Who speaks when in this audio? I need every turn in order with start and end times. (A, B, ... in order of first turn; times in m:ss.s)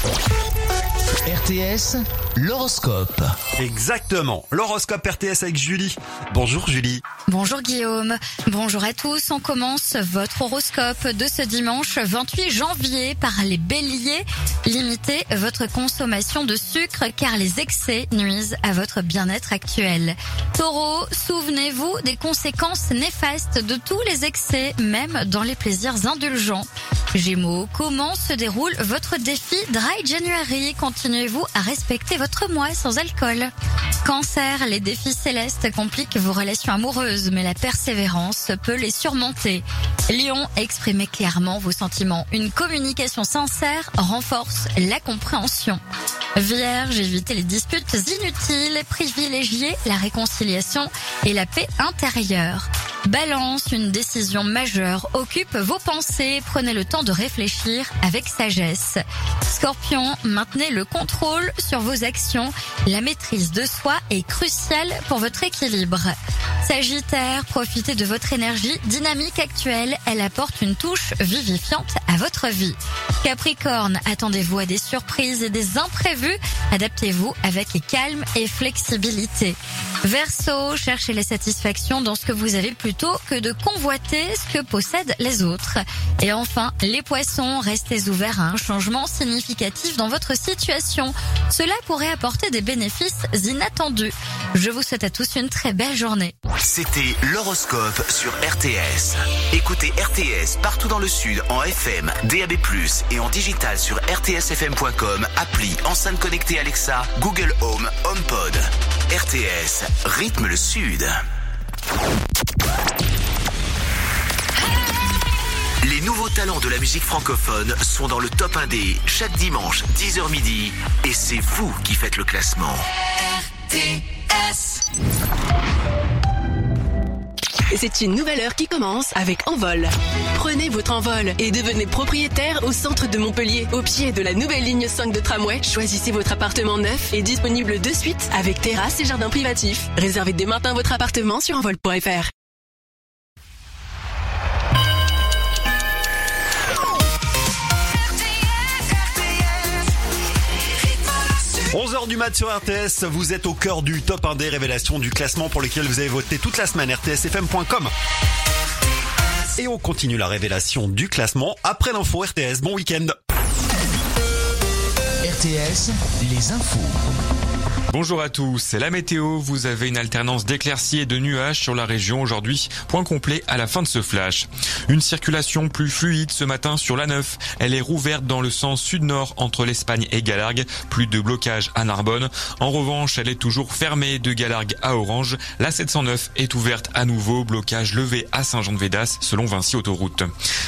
0:01.2-0:03.3 A
0:03.6-0:07.0 B
0:07.3-0:33.5 C
0:34.0-0:45.8 C
0:46.4-1:36.3 C
1:36.6-1:51.2 D
1:55.8-2:02.8 D
2:07.7-2:09.8 E
2:10.6-2:22.3 E
2:31.7-2:37.9 B
2:39.6-2:43.1 B
2:45.3-2:46.9 A
2:47.9-3:10.3 F